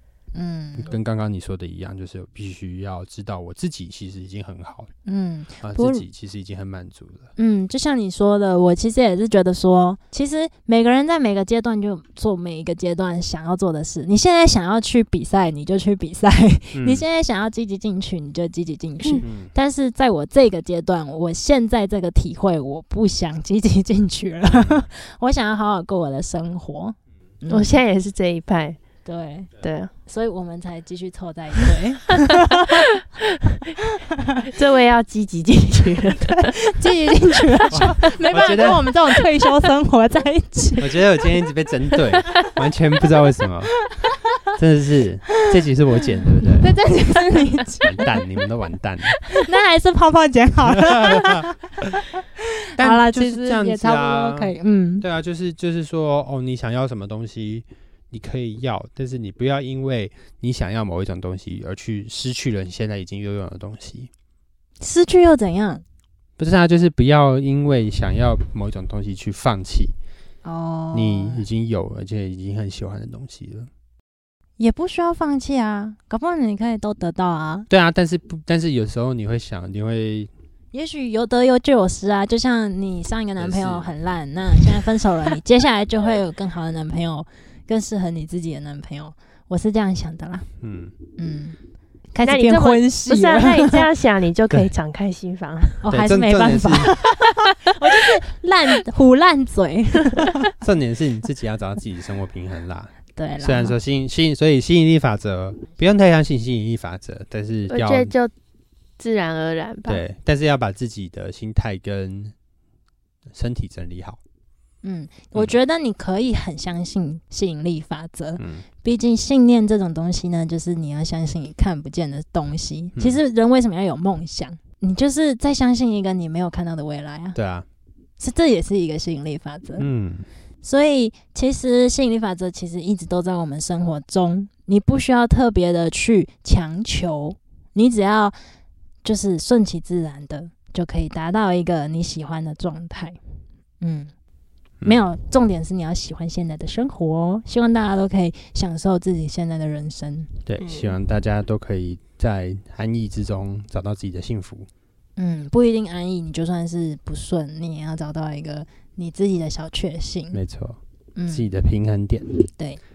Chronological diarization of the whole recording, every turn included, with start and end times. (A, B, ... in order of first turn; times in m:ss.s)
0:00.3-0:00.9 A
0:00.8-0:04.9 B
0:05.1-0:06.0 A
0:05.6-0:07.3 B
0:07.4-0:27.8 A
0:16.7-0:17.0 B
0:19.2-0:19.5 B
0:27.5-0:28.8 C
0:29.0-0:29.5 A
0:29.6-0:29.9 C
0:30.0-0:32.8 A
0:34.4-0:36.6 C
0:36.4-0:41.0 A
0:37.7-0:38.9 B
0:40.8-0:43.9 B
0:44.6-0:46.8 B
0:46.6-0:48.0 A
0:47.8-0:49.2 B
0:49.3-0:51.6 A
0:50.8-0:51.5 B
0:52.8-1:04.1 B
0:52.8-0:55.0 A
1:04.8-1:05.8 A
1:06.4-1:09.9 B
1:10.4-1:11.4 A
1:10.9-1:13.7 B
1:14.6-1:17.7 A
1:17.7-1:20.3 B
1:20.7-1:30.5 A
1:23.4-1:23.9 B
1:30.6-1:30.9 B
1:31.2-1:31.6 A
1:32.1-1:33.8 A
1:32.2-1:35.8 C
1:35.8-1:40.3 A
1:35.9-1:36.9 B
1:40.6-1:48.1 B
1:43.2-1:43.8 A
1:47.7-1:48.3 C
1:49.0-1:50.0 C
1:49.9-1:52.4 B
1:53.3-1:54.2 B
1:54.8-2:07.4 A
1:58.4-1:58.6 B
2:07.4-2:07.7 B
2:08.2-2:09.9 A
2:09.8-2:10.3 B
2:10.6-2:18.4 A
2:19.0-2:23.2 A
2:23.8-2:24.1 A
2:24.8-2:30.3 A
2:30.5-2:34.7 B
2:30.6-2:31.0 C
2:35.2-2:40.4 A
2:40.3-2:42.3 B
2:41.2-2:41.4 A
2:42.6-2:42.8 A